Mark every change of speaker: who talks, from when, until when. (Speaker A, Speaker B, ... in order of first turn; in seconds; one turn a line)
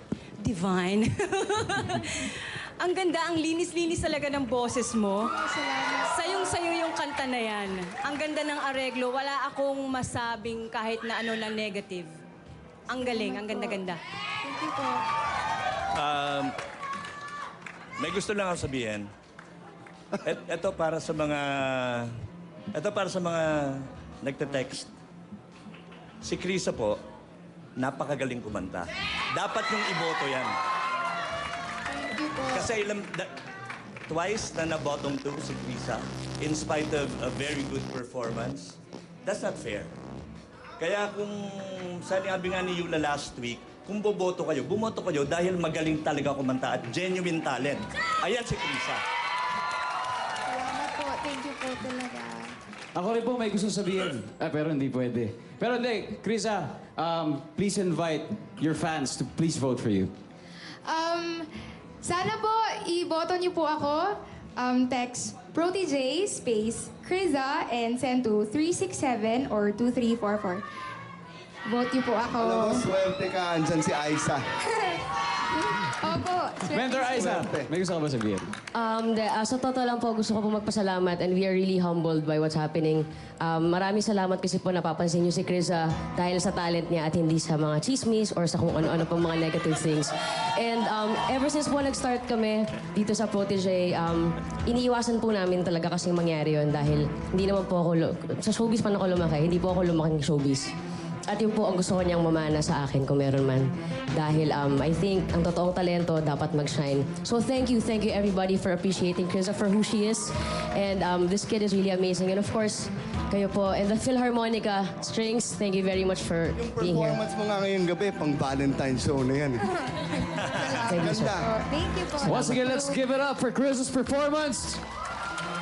Speaker A: 0.5-5.3
Speaker B: 5.4-6.5
Speaker A: 6.0-12.1
Speaker A: 12.9-14.0
Speaker B: 13.0-13.8
Speaker B: 14.4-15.0
Speaker C: 15.9-16.5
Speaker C: 18.0-19.1
Speaker C: 20.2-22.1
Speaker C: 22.7-24.9
Speaker C: 26.2-27.0
Speaker C: 27.8-30.5
Speaker B: 31.9-32.7
Speaker C: 32.5-33.3
Speaker C: 34.1-39.9
Speaker C: 40.8-49.0
Speaker B: 50.5-52.5
Speaker D: 52.9-60.1
Speaker B: 60.8-61.5
Speaker B: 62.0-70.6
Speaker B: 71.7-72.8
Speaker E: 72.4-74.4
Speaker B: 75.5-77.3
Speaker D: 76.6-78.5
Speaker E: 77.0-77.7
Speaker F: 78.7-100.7
Speaker F: 101.3-117.2
Speaker E: 116.5-119.6
Speaker B: 119.8-123.0
Speaker F: 120.8-121.4
Speaker E: 120.9-121.5
Speaker D: 122.2-124.8